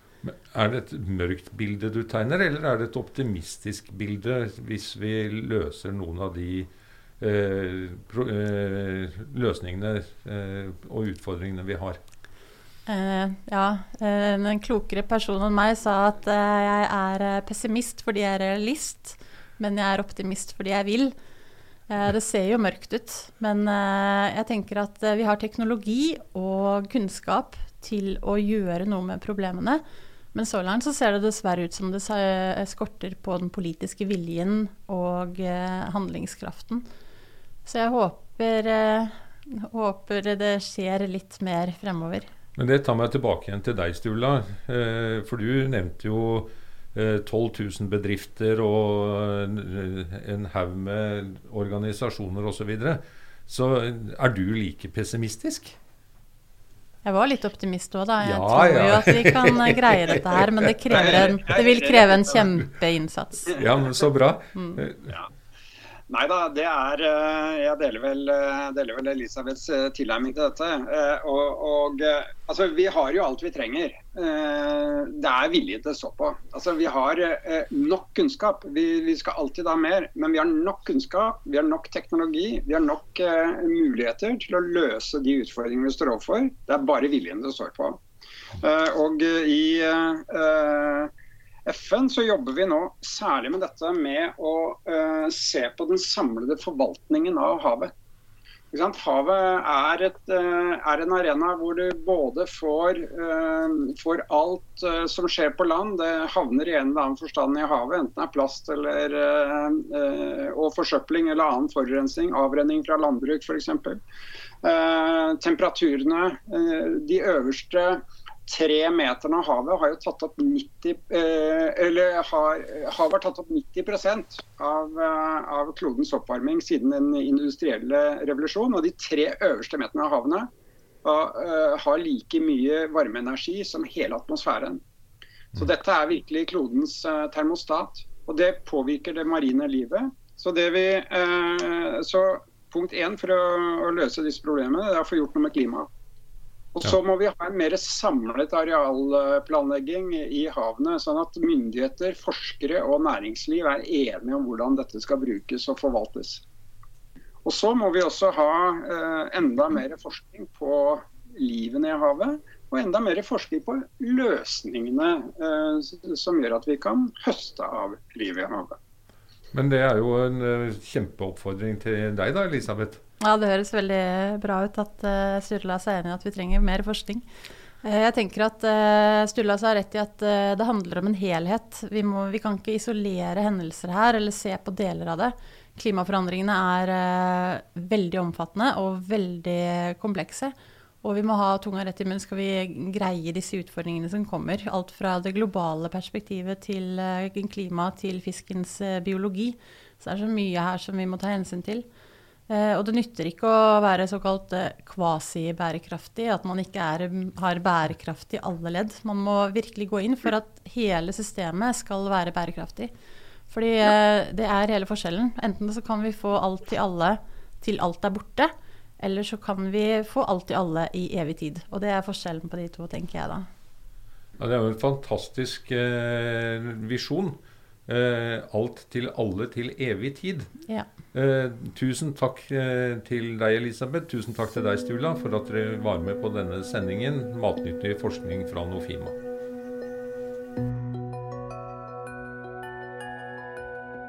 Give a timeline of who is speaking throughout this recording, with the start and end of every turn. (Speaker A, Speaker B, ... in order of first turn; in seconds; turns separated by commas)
Speaker A: 0.2-6.7, Speaker A: 7.2-12.0, Speaker B: 12.9-21.1, Speaker B: 21.9-36.8, Speaker B: 37.6-42.3, Speaker A: 42.5-55.8, Speaker B: 57.0-63.5, Speaker A: 58.2-60.2, Speaker C: 60.9-62.4, Speaker A: 60.9-61.4, Speaker A: 63.5-65.1, Speaker C: 63.5-64.0, Speaker B: 64.5-64.8, Speaker C: 66.1-88.0, Speaker C: 88.5-91.1, Speaker C: 91.7-97.9, Speaker C: 98.7-114.0, Speaker C: 114.6-130.5, Speaker C: 131.0-134.8, Speaker C: 135.5-145.9, Speaker C: 146.7-156.4, Speaker C: 157.4-168.8, Speaker A: 169.5-173.0, Speaker B: 173.2-177.2, Speaker B: 177.8-201.8, Speaker B: 202.5-212.9, Speaker B: 213.5-223.5, Speaker A: 224.4-230.5, Speaker A: 231.1-239.2